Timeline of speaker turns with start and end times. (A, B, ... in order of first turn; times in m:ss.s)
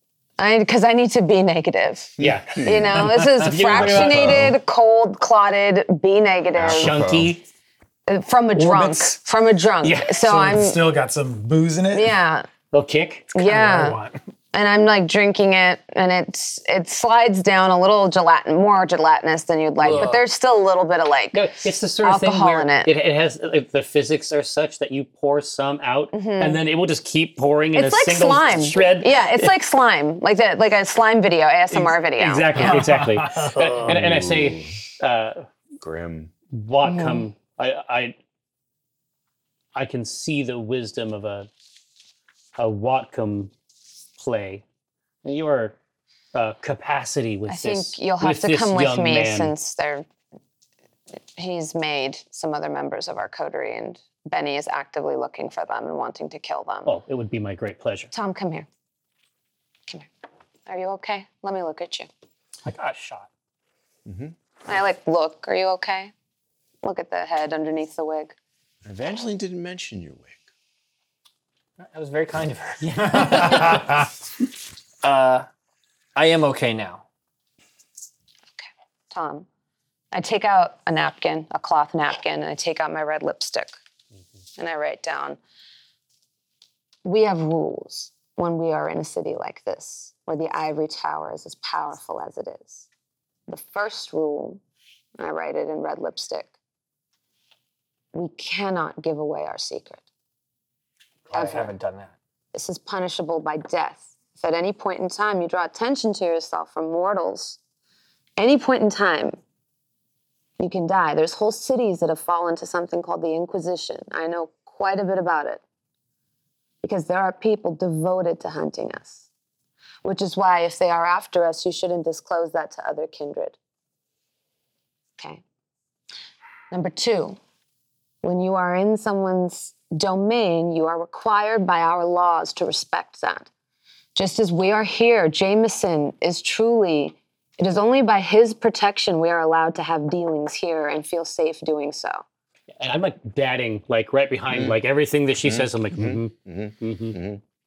0:00.4-0:07.0 A
0:02.2-0:04.6 B
0:02.2-0:04.6 C
0:06.6-0:07.3 B
0:06.6-0:07.4 C
0:08.1-0:10.8 A
0:08.6-0:09.2 C
0:09.8-0:10.1 C
0:10.1-0:12.2 D
0:11.9-0:12.5 A
0:12.7-0:13.3 C
0:13.4-0:14.0 A
0:13.4-0:14.2 D
0:14.5-0:21.4 A
0:19.8-0:20.2 E
0:19.8-0:20.2 C
0:21.3-0:29.5 C
0:22.0-0:22.9 A
0:26.1-0:26.6 A
0:27.8-0:32.7 A
0:31.7-0:35.5 C
0:32.6-0:33.8 D
0:33.8-0:34.8 B
0:35.8-0:36.3 B
0:36.5-0:38.2 C
0:36.8-0:37.3 A
0:39.8-0:41.5 C
0:42.6-0:43.5 C
0:44.2-0:44.6 C
0:45.2-0:45.8 C
0:46.3-0:49.5 C
0:47.5-0:50.1 A
0:51.4-0:57.0 A
0:56.9-0:58.1 C
0:58.1-0:58.7 A
1:00.7-1:02.1 A
1:02.7-1:03.3 E
1:04.1-1:04.4 B
1:04.7-1:06.1 A
1:06.8-1:08.4 A
1:08.9-1:10.4 B
1:11.8-1:14.0 E
1:12.8-1:13.8 C
1:13.1-1:14.0 D
1:15.0-1:15.5 E
1:16.2-1:17.0 E
1:18.6-1:19.5 A
1:20.1-1:23.7 A
1:24.6-1:25.4 A
1:27.0-1:32.9 A
1:33.5-1:34.6 A
1:35.2-1:36.5 A
1:38.1-1:40.0 A
1:41.3-1:42.2 E
1:41.3-1:41.7 A
1:42.5-1:47.6 A
1:48.4-1:49.4 A
1:50.6-1:55.6 A
1:56.8-1:59.2 A
2:00.0-2:03.6 A
2:06.7-2:07.4 A
2:08.2-2:13.5 A
2:14.2-2:22.2 A
2:22.8-2:27.2 C
2:24.5-2:24.8 B
2:25.4-2:27.4 B